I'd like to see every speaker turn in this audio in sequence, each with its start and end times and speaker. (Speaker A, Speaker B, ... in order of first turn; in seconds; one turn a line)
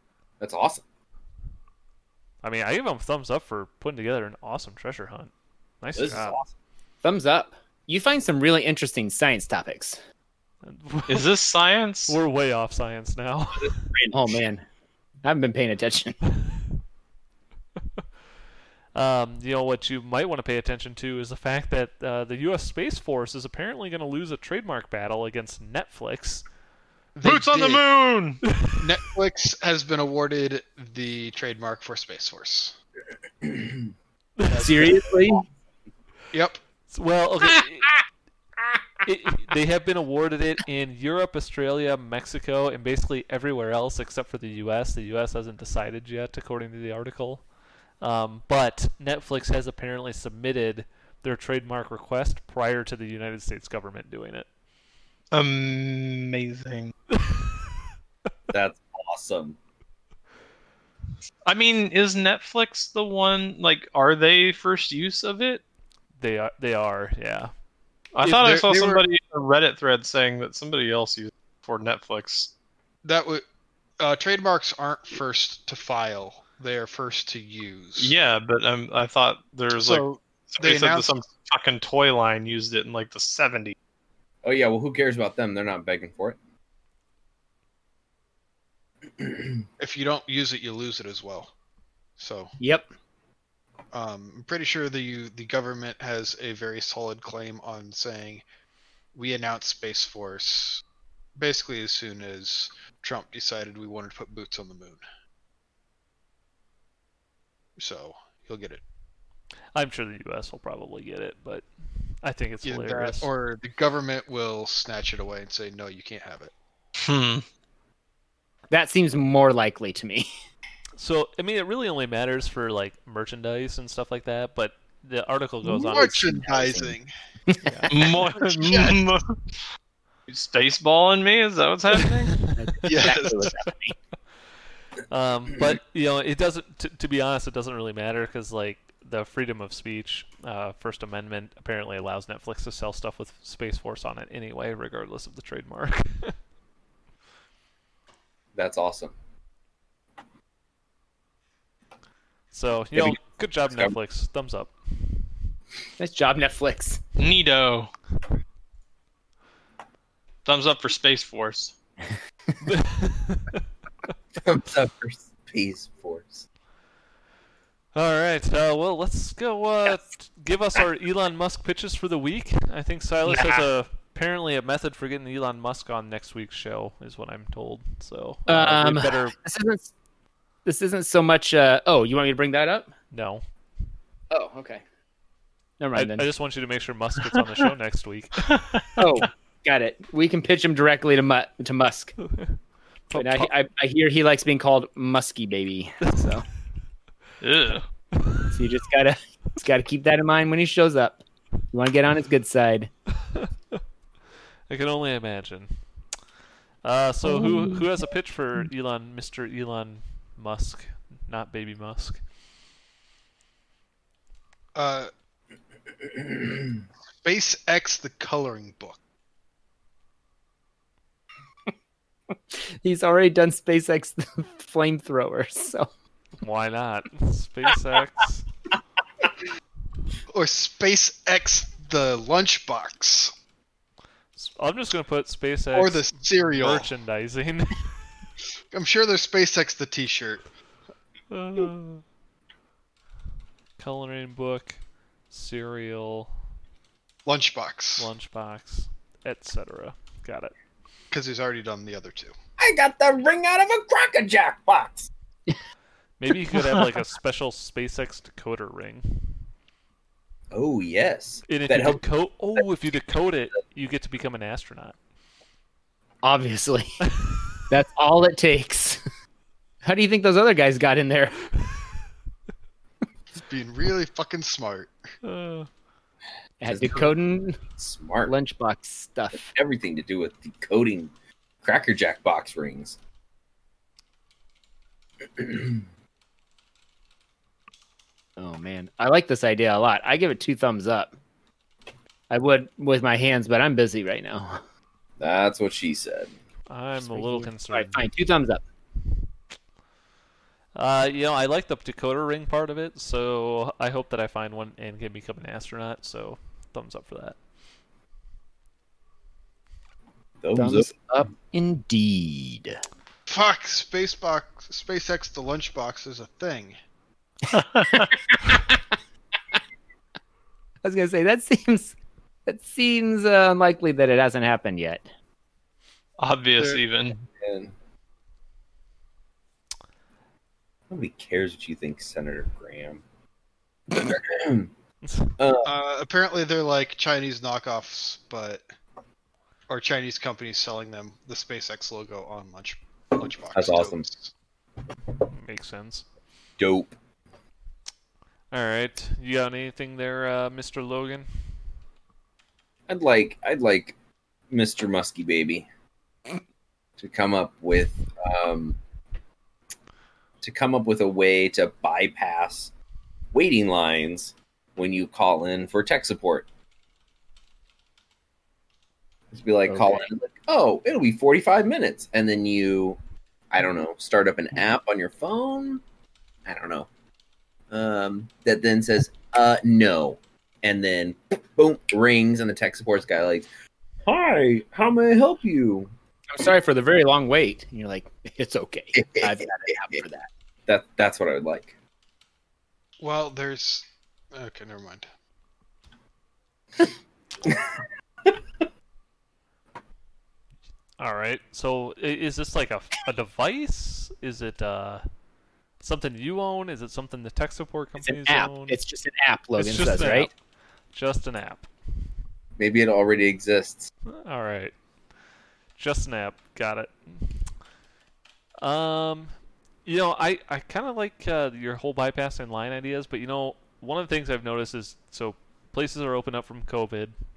Speaker A: 0.4-0.8
Speaker B: 2.4-6.4
Speaker A: 5.9-6.5
Speaker C: 7.0-10.0
Speaker B: 10.6-11.3
Speaker D: 11.1-12.2
Speaker B: 12.1-13.8
Speaker A: 13.5-14.4
Speaker C: 14.1-14.6
Speaker C: 15.2-16.2
Speaker B: 18.9-26.4
Speaker E: 27.1-27.8
Speaker D: 27.2-28.4
Speaker B: 28.4-28.8
Speaker E: 28.8-32.8
Speaker A: 33.4-33.8
Speaker B: 34.4-35.0
Speaker E: 34.5-35.0
Speaker C: 34.5-35.5
Speaker E: 36.3-36.6
Speaker B: 36.9-38.0
Speaker B: 39.0-47.5
Speaker B: 48.0-54.5
Speaker D: 55.3-56.9
Speaker B: 57.1-57.4
Speaker A: 58.5-59.6
Speaker D: 61.4-65.6
Speaker B: 66.2-67.5
Speaker D: 68.1-72.5
Speaker E: 68.2-69.0
Speaker E: 73.0-73.4
Speaker E: 74.0-78.1
Speaker D: 78.0-83.8
Speaker E: 79.7-81.1
Speaker A: 84.4-86.4
Speaker A: 89.2-89.5
Speaker E: 89.8-91.5
Speaker E: 92.2-92.5
Speaker C: 92.6-92.9
Speaker E: 93.9-98.4
Speaker E: 99.1-100.8
Speaker E: 101.3-105.0
Speaker E: 107.8-108.8
Speaker B: 109.7-111.7
Speaker B: 112.2-113.3
Speaker E: 112.6-116.5
Speaker D: 117.0-117.4
Speaker C: 118.7-120.3
Speaker B: 121.0-126.3
Speaker C: 125.6-126.9
Speaker E: 125.8-127.1
Speaker C: 127.5-127.9
Speaker B: 127.6-127.9
Speaker D: 127.9-129.6
Speaker E: 128.4-129.0
Speaker D: 130.3-132.4
Speaker C: 132.5-133.9
Speaker E: 132.8-133.5
Speaker B: 135.1-146.3
Speaker A: 148.5-149.1
Speaker B: 152.5-155.3
Speaker A: 152.9-153.9
Speaker C: 156.0-157.0
Speaker D: 157.2-157.9
Speaker D: 160.4-161.7
Speaker B: 162.6-163.6
Speaker A: 164.3-166.4
Speaker B: 167.9-179.3
Speaker C: 178.5-179.9
Speaker C: 180.6-182.9
Speaker B: 183.1-183.4
Speaker C: 184.3-184.8
Speaker C: 185.8-186.3
Speaker B: 185.9-188.5
Speaker D: 188.4-189.0
Speaker C: 189.0-192.2
Speaker B: 192.3-192.6
Speaker B: 193.1-193.5
Speaker C: 193.1-196.4
Speaker D: 197.4-197.8
Speaker C: 198.5-201.2
Speaker C: 201.7-202.9
Speaker B: 204.7-205.7
Speaker B: 206.8-212.2
Speaker C: 207.3-207.8
Speaker E: 214.7-215.1
Speaker E: 217.2-219.0
Speaker C: 222.5-225.9
Speaker B: 226.4-228.4
Speaker E: 230.3-233.3
Speaker B: 234.3-237.9
Speaker E: 235.7-236.9
Speaker E: 238.7-240.4
Speaker B: 241.3-242.0
Speaker B: 243.8-244.8
Speaker B: 245.3-246.3
Speaker E: 247.2-248.1
Speaker B: 248.0-250.5
Speaker E: 251.1-252.3
Speaker A: 252.6-255.1
Speaker B: 256.2-259.4
Speaker D: 256.5-256.8
Speaker A: 260.5-262.0
Speaker B: 261.5-264.9
Speaker C: 266.2-267.0
Speaker C: 267.7-269.0
Speaker C: 269.8-271.4
Speaker E: 273.3-274.9
Speaker B: 275.2-275.7
Speaker C: 276.6-277.6
Speaker A: 276.7-277.1
Speaker A: 277.8-278.3
Speaker C: 278.3-279.5
Speaker A: 279.3-281.1
Speaker A: 281.6-283.0
Speaker A: 285.4-285.8
Speaker C: 288.4-291.1
Speaker C: 292.3-294.6
Speaker A: 295.2-296.3
Speaker B: 296.7-298.0
Speaker C: 297.0-298.6
Speaker B: 300.7-307.4
Speaker A: 310.4-310.9
Speaker C: 310.5-312.8
Speaker E: 313.3-316.8
Speaker D: 317.5-318.1
Speaker C: 318.0-318.8
Speaker C: 320.8-325.1
Speaker D: 326.2-327.2
Speaker A: 327.4-327.7
Speaker A: 330.9-333.0
Speaker A: 333.9-334.7
Speaker B: 335.0-335.3
Speaker A: 335.4-335.7
Speaker E: 335.6-338.7
Speaker E: 339.7-344.3
Speaker A: 343.5-344.0
Speaker B: 345.3-346.0
Speaker A: 346.6-346.9
Speaker B: 348.5-351.3
Speaker A: 352.9-353.9
Speaker A: 354.5-355.7
Speaker A: 357.0-358.8
Speaker A: 360.4-362.7
Speaker A: 363.3-366.4
Speaker A: 369.3-373.0
Speaker C: 369.7-370.1
Speaker A: 373.5-375.8
Speaker A: 376.4-376.9
Speaker A: 377.7-383.5
Speaker A: 384.0-385.9
Speaker C: 386.3-390.3
Speaker A: 388.9-390.0
Speaker A: 390.7-391.7
Speaker E: 393.0-395.1
Speaker A: 397.4-397.7
Speaker B: 401.0-405.0
Speaker B: 405.8-408.8
Speaker C: 408.0-410.3
Speaker B: 409.6-410.3
Speaker B: 410.9-411.7
Speaker A: 412.6-413.9
Speaker B: 414.2-414.7
Speaker B: 415.8-417.5
Speaker B: 418.6-419.3
Speaker B: 419.8-427.1